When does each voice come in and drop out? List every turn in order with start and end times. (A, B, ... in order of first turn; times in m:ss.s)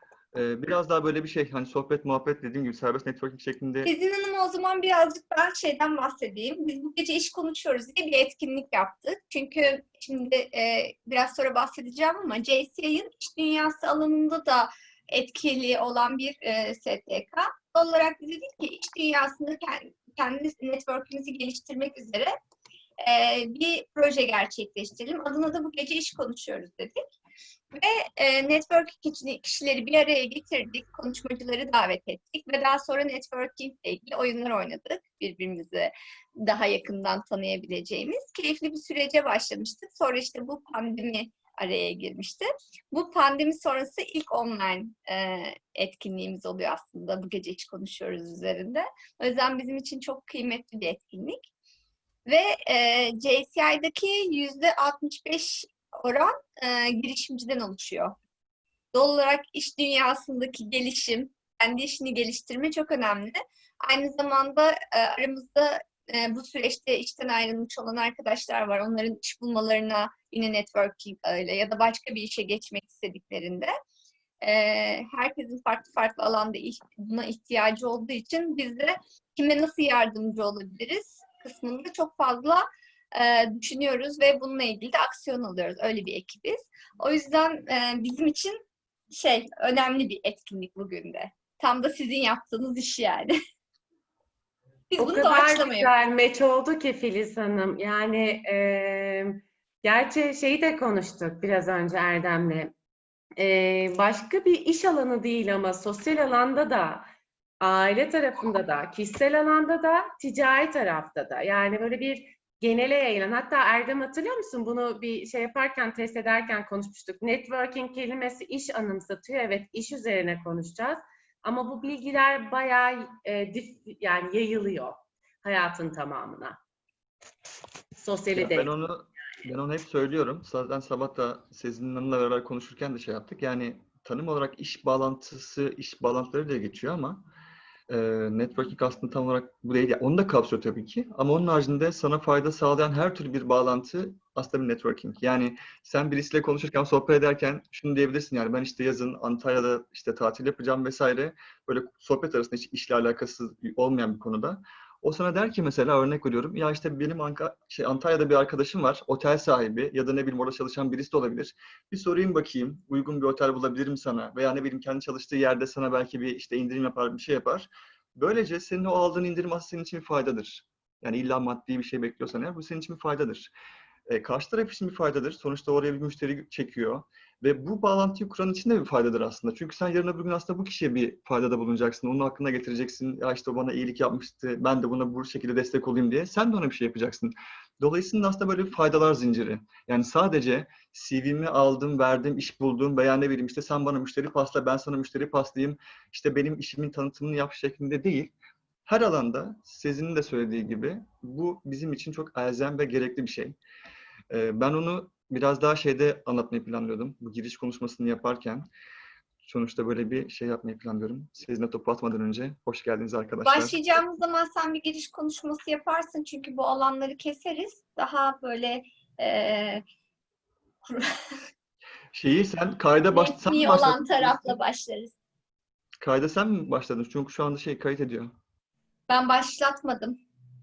0:00.3-0:03.9 A
0:03.8-0:22.3 B
0:23.0-0:27.0 B
0:27.7-0:51.4 B
0:52.3-0:58.2 B
0:58.9-1:13.7 B
1:14.4-1:28.6 B
1:29.1-1:33.3 B
1:34.9-1:36.0 B
1:35.0-1:42.7 C
1:43.4-1:47.1 C
1:47.6-2:06.6 C
2:08.0-2:08.7 C
2:08.3-2:17.2 A
2:17.9-2:53.5 A
2:54.1-3:18.3 A
3:18.9-3:23.6 A
3:24.3-3:28.7 A
3:29.4-3:33.8 A
3:33.4-3:39.8 B
3:40.9-3:41.3 B
3:42.1-3:44.6 A
3:43.1-3:45.2 B
3:46.0-3:48.3 A
3:49.1-3:50.2 B